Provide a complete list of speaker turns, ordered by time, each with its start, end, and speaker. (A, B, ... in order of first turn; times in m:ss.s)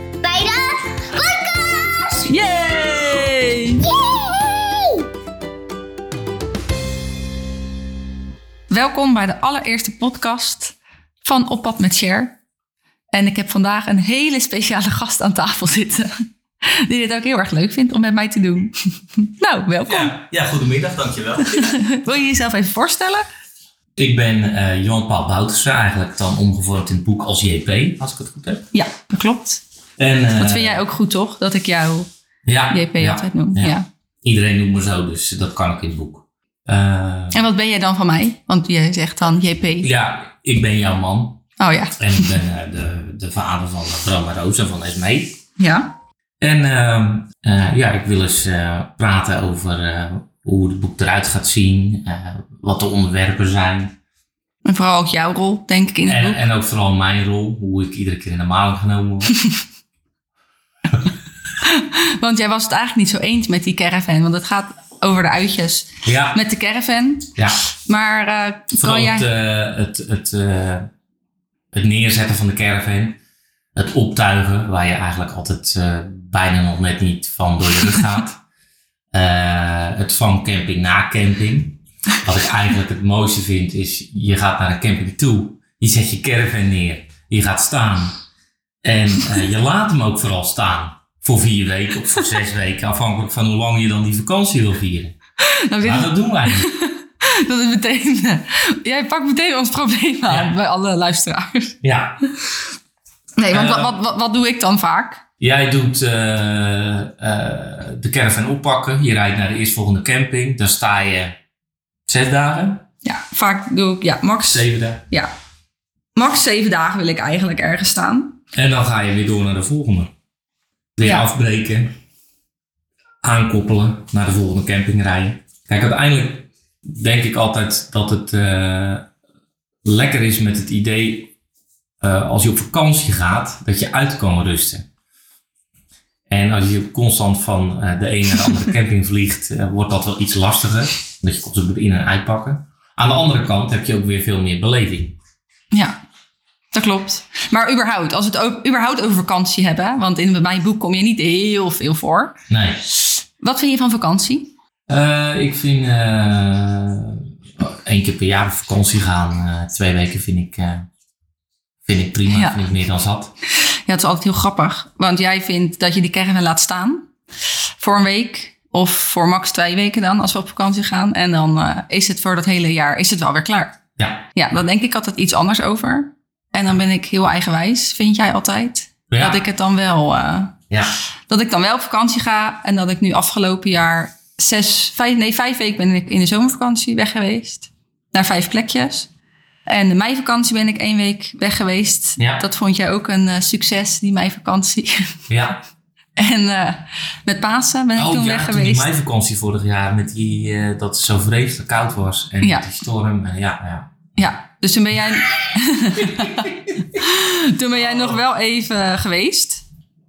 0:00.2-0:02.3 A
0:02.2-0:03.8 B
0:03.8-0:05.1 A
0:08.7-0:12.4 B
0:13.1-0:16.1 B
0:16.6-0:20.1 B
0:19.9-0:21.9 C
0:21.4-0:23.3 B
0:24.0-0:28.6 C
0:28.7-0:29.6 B
0:30.0-0:30.8 C
0:30.4-0:32.1 B
0:32.5-0:37.4 C
0:32.7-0:33.9 B
0:37.3-0:39.9 B
0:39.8-0:41.4 C
0:41.6-0:42.4 B
0:42.0-0:45.4 C
0:45.6-0:45.9 B
0:46.4-0:54.0 C
0:54.6-0:56.5 B
0:56.1-0:59.3 C
1:01.6-1:07.3 B
1:06.0-1:06.4 C
1:07.4-1:07.6 C
1:07.9-1:09.3 B
1:08.8-1:10.9 C
1:11.7-1:13.2 C
1:13.8-1:18.4 C
1:19.1-1:28.2 C
1:28.8-1:35.2 C
1:35.4-1:41.8 B
1:35.8-1:36.7 C
1:40.3-1:40.5 C
1:41.8-1:42.2 C
1:43.4-1:45.2 B
1:43.5-1:44.0 C
1:45.4-1:51.4 C
1:52.1-1:52.9 C
1:53.0-1:55.3 B
1:54.4-1:55.0 C
1:56.2-1:58.4 B
1:58.5-2:00.1 C
2:01.0-2:02.0 C
2:01.0-2:01.3 B
2:03.2-2:09.1 C
2:09.8-2:11.3 C
2:12.0-2:14.8 C
2:16.3-2:25.2 C
2:26.7-2:32.4 B
2:32.5-2:32.8 C
2:32.9-2:34.5 B
2:34.9-2:40.9 C
2:41.8-2:43.3 C
2:42.3-2:42.6 B
2:43.9-2:47.1 B
2:47.8-2:53.8 B
2:54.0-2:54.3 C
2:54.3-3:00.6 B
2:59.1-2:59.4 C
3:01.3-3:09.1 B
3:09.7-3:15.2 B
3:12.2-3:12.4 C
3:15.3-3:15.6 C
3:16.2-3:18.9 B
3:18.0-3:23.9 C
3:22.4-3:22.7 B
3:24.2-3:29.6 B
3:26.0-3:26.8 C